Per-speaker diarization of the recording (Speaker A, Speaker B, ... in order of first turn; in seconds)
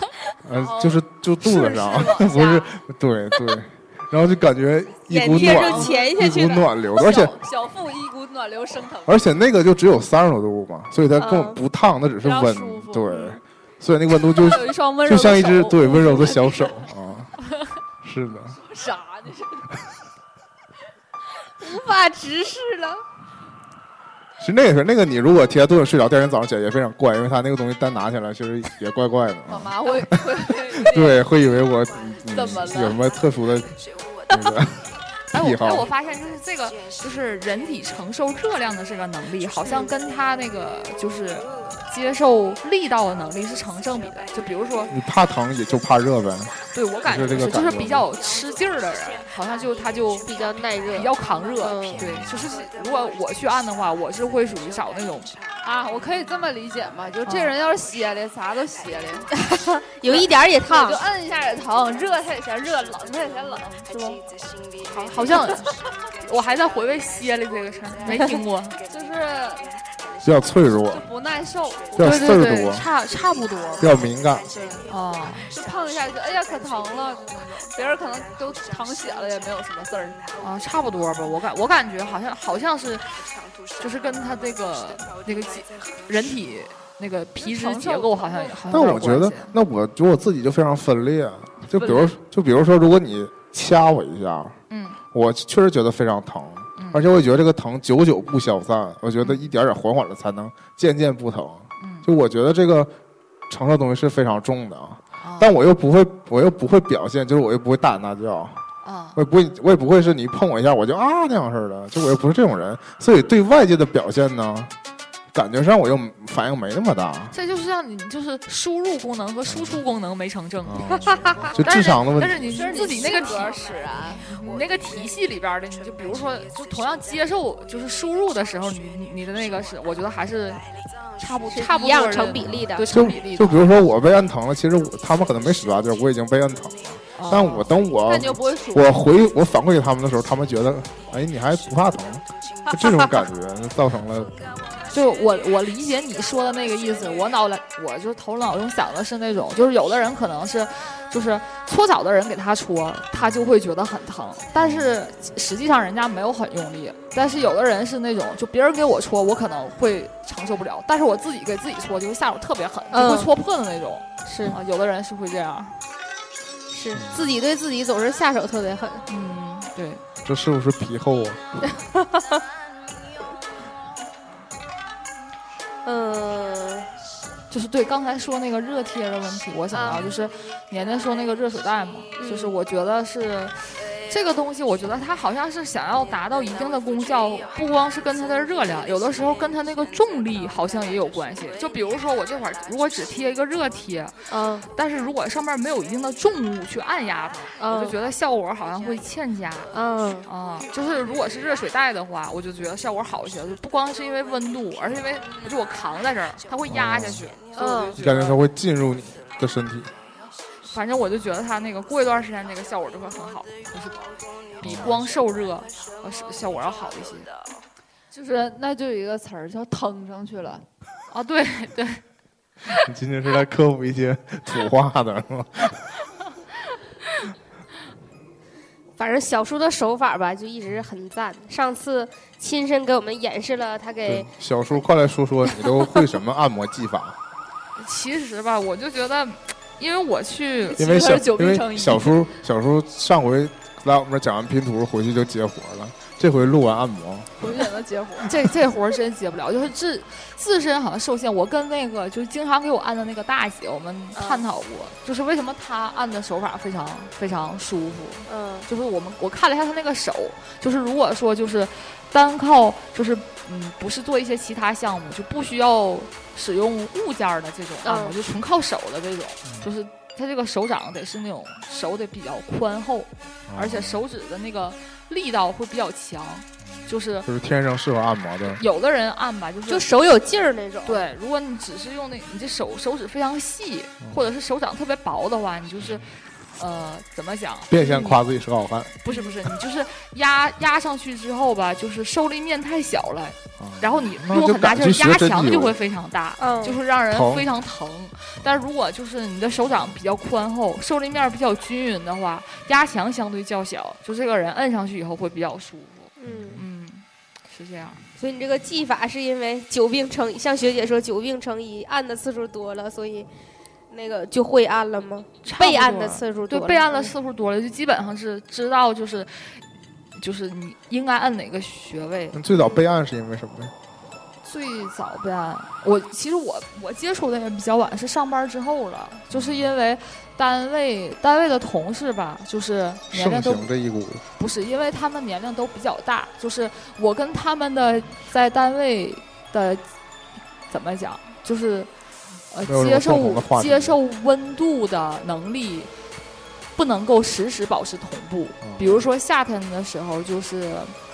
Speaker A: 0.4-7.4, 9.1-17.4, 18.0-18.6, 24.4-35.9, 44.9-46.5, 47.0-48.1, 52.0-52.5, 70.2-71.1, 72.0-72.9, 73.8-74.5, 88.7-94.6, 95.1-102.9, 103.5-108.6, 109.2-114.7, 115.3-117.3, 119.5-119.8, 120.7-122.7, 132.4-144.5, 153.2-153.4, 154.6-155.0, 157.2-157.5, 166.9-167.3, 170.2-171.4, 179.8-180.1, 206.7-207.3, 208.0-209.9, 214.6-215.0, 222.8-225.9, 234.1-237.2, 240.8-247.4, 273.5-274.1, 277.2-278.6, 287.7-289.0, 293.6-295.8, 297.1-297.5, 306.3-306.6, 322.3-323.7, 329.3-329.7, 333.1-334.2, 342.6-344.0, 348.6-349.1
Speaker B: 0.6-2.7, 5.3-9.2, 12.2-13.3, 14.3-16.9, 18.5-19.8, 29.5-31.2, 32.3-33.0, 55.6-59.3, 60.1-64.2, 65.2-65.6, 68.9-69.7, 70.9-72.4, 74.5-74.9, 75.5-80.3, 87.4-88.6, 122.5-124.3, 138.0-139.0, 218.1-220.7, 240.7-242.2, 247.4-248.3
Speaker C: 5.1-6.7, 11.2-11.6, 21.6-23.0, 39.6-39.9, 50.2-52.1, 59.3-61.0, 68.1-68.4, 121.0-121.5, 131.5-133.1, 162.9-163.3, 164.3-164.6, 166.7-169.1, 175.8-176.9, 179.7-180.1, 182.2-182.6, 194.3-194.7, 197.6-198.0, 199.7-200.3, 207.6-208.0, 229.0-234.3, 254.2-254.4, 258.3-258.7, 267.8-268.2, 279.7-281.0, 296.4-296.8, 306.2-306.6, 308.2-313.3, 313.9-317.1, 322.5-322.8
Speaker D: 35.3-44.9, 46.7-50.3, 50.9-55.4, 57.2-57.6, 64.9-68.8, 72.0-74.0, 74.9-75.5, 80.4-89.5, 91.8-92.1, 94.7-95.0, 96.8-97.0, 99.2-99.5, 101.8-102.1, 105.2-105.5, 108.8-109.2, 117.3-123.6, 124.2-130.6, 131.2-133.7, 137.2-137.7, 144.9-165.8, 169.1-170.0, 177.5-199.7, 200.3-208.4, 210.7-214.0, 214.6-217.3, 221.1-222.0, 237.8-240.8, 248.2-277.3, 278.5-279.9, 280.9-288.2, 289.0-308.0, 315.4-319.6, 320.2-322.4, 324.4-333.7, 334.4-339.8, 340.7-341.9, 342.5-345.9, 346.8-350.9